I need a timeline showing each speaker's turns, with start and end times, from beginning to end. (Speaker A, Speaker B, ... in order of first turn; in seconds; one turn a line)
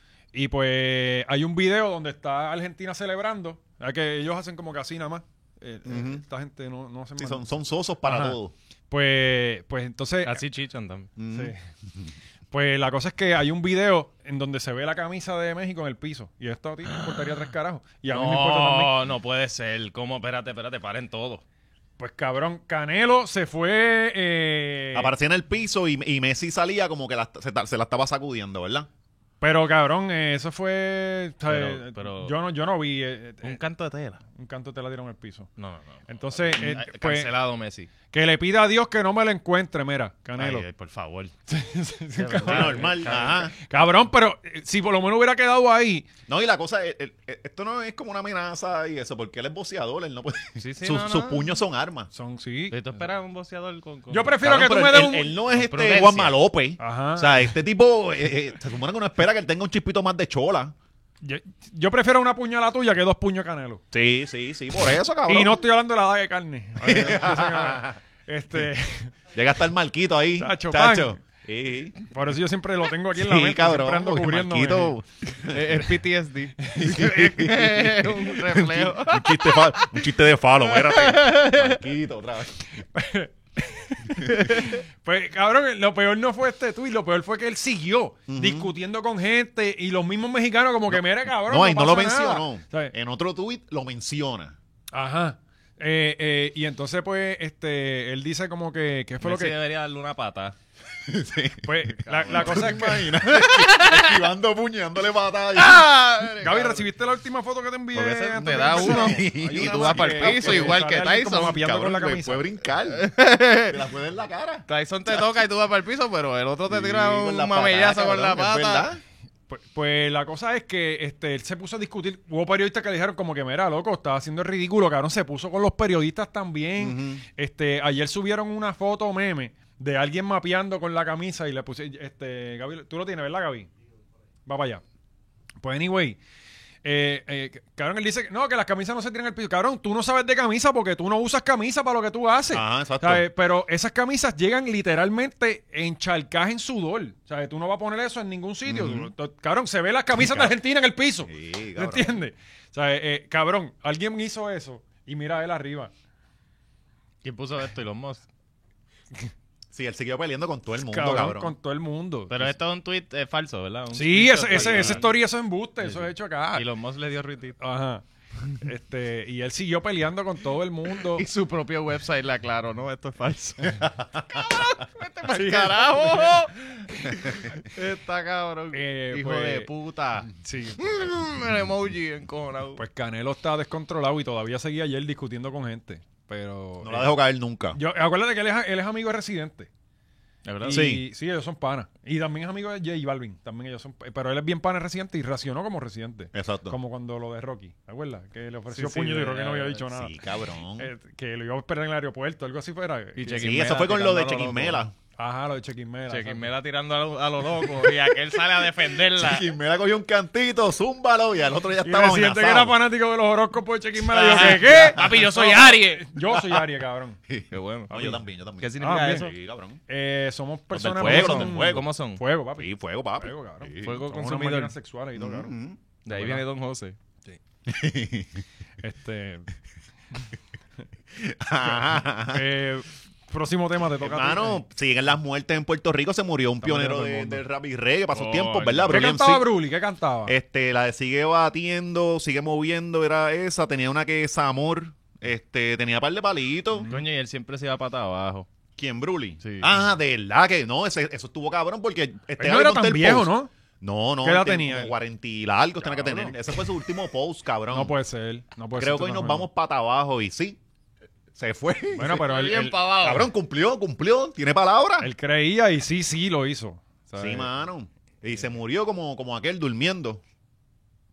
Speaker A: 0.3-7.5
Speaker B: 5.8-6.2
Speaker B: 7.2-8.5
Speaker A: 8.0-8.4
Speaker A: 8.9-10.4
Speaker C: 10.2-11.1
Speaker B: 11.2-12.1
Speaker A: 11.3-11.6
Speaker A: 12.5-18.9
Speaker C: 16.9-17.5
Speaker C: 18.1-21.4
Speaker A: 22.0-25.1
Speaker B: 24.9-28.9
Speaker A: 29.4-33.6
Speaker C: 31.5-32.4
Speaker C: 33.4-34.2
Speaker A: 34.4-35.5
Speaker C: 35.6-37.9
Speaker A: 36.1-37.3
Speaker A: 38.1-40.7
Speaker C: 40.4-41.3
Speaker A: 41.5-46.1
Speaker C: 42.2-43.5
Speaker B: 42.5-43.5
Speaker B: 46.3-52.1
Speaker C: 50.6-51.6
Speaker A: 52.1-53.0
Speaker C: 52.7-54.4
Speaker A: 54.1-55.3
Speaker B: 54.4-60.7
Speaker C: 55.5-56.4
Speaker A: 56.8-57.5
Speaker A: 61.2-63.8
Speaker B: 63.9-65.7
Speaker A: 65.3-69.1
Speaker B: 66.8-68.0
Speaker B: 69.3-72.0
Speaker A: 70.4-71.2
Speaker A: 72.1-75.0
Speaker B: 73.2-75.8
Speaker C: 75.5-79.6
Speaker A: 76.6-77.1
Speaker B: 76.8-82.7
Speaker C: 80.8-81.8
Speaker A: 82.9-92.9
Speaker B: 84.2-84.7
Speaker B: 88.3-88.7
Speaker B: 90.9-94.6
Speaker A: 94.9-99.5
Speaker C: 99.2-100.6
Speaker B: 101.0-105.9
Speaker A: 101.6-103.2
Speaker C: 102.1-104.2
Speaker C: 105.5-106.9
Speaker A: 106.4-112.5
Speaker C: 108.0-111.6
Speaker B: 108.4-113.1
Speaker C: 112.8-113.8
Speaker B: 113.6-115.2
Speaker C: 114.7-118.9
Speaker B: 116.7-119.0
Speaker A: 119.5-133.7
Speaker B: 126.8-127.2
Speaker A: 134.5-134.8
Speaker A: 135.6-136.2
Speaker A: 136.8-155.9
Speaker B: 142.5-143.2
Speaker B: 148.7-149.1
Speaker B: 150.1-150.6
Speaker B: 151.2-152.2
Speaker C: 157.2-158.2
Speaker B: 159.7-161.5
Speaker A: 160.8-162.5
Speaker C: 162.3-165.1
Speaker A: 163.9-166.7
Speaker C: 165.8-167.6
Speaker A: 167.6-171.3
Speaker C: 171.0-182.8
Speaker B: 173.8-174.2
Speaker A: 175.3-176.4
Speaker A: 178.7-179.7
Speaker A: 180.3-180.9
Speaker A: 182.8-187.1
Speaker B: 186.8-187.8
Speaker A: 187.7-189.7
Speaker C: 190.4-190.9
Speaker A: 190.6-200.1
Speaker B: 190.7-191.1
Speaker B: 196.3-196.8
Speaker C: 198.7-199.8
Speaker B: 199.9-200.9
Speaker A: 200.8-203.5
Speaker C: 203.2-204.8
Speaker B: 203.3-204.9
Speaker A: 205.2-206.4
Speaker C: 206.1-209.5
Speaker B: 209.1-212.8
Speaker A: 211.8-217.2
Speaker C: 214.1-216.2
Speaker B: 214.2-215.3
Speaker B: 217.3-219.8
Speaker C: 217.5-219.3
Speaker A: 218.8-219.3
Speaker A: 219.9-225.5
Speaker B: 220.7-221.9
Speaker C: 220.8-222.2
Speaker B: 222.6-224.1
Speaker C: 223.8-224.7
Speaker B: 225.2-225.8
Speaker C: 226.1-227.0
Speaker A: 226.1-226.4
Speaker B: 227.7-228.4
Speaker A: 228.8-229.5
Speaker B: 231.2-232.5
Speaker A: 231.7-234.6
Speaker B: 234.0-239.5
Speaker A: 236.6-237.4
Speaker C: 238.1-239.1
Speaker A: 238.9-240.3
Speaker B: 240.3-246.9
Speaker A: 246.8-247.0
Speaker C: 246.8-248.5
Speaker B: 248.8-257.9
Speaker C: 249.4-249.7
Speaker A: 252.4-253.5
Speaker A: 254.2-254.9
Speaker A: 255.8-256.3
Speaker A: 257.7-259.5
Speaker B: 258.8-260.6
Speaker B: 261.4-262.3
Speaker A: 261.9-262.8
Speaker C: 262.1-263.3
Speaker B: 262.9-265.1
Speaker A: 265.0-267.5
Speaker B: 267.2-270.2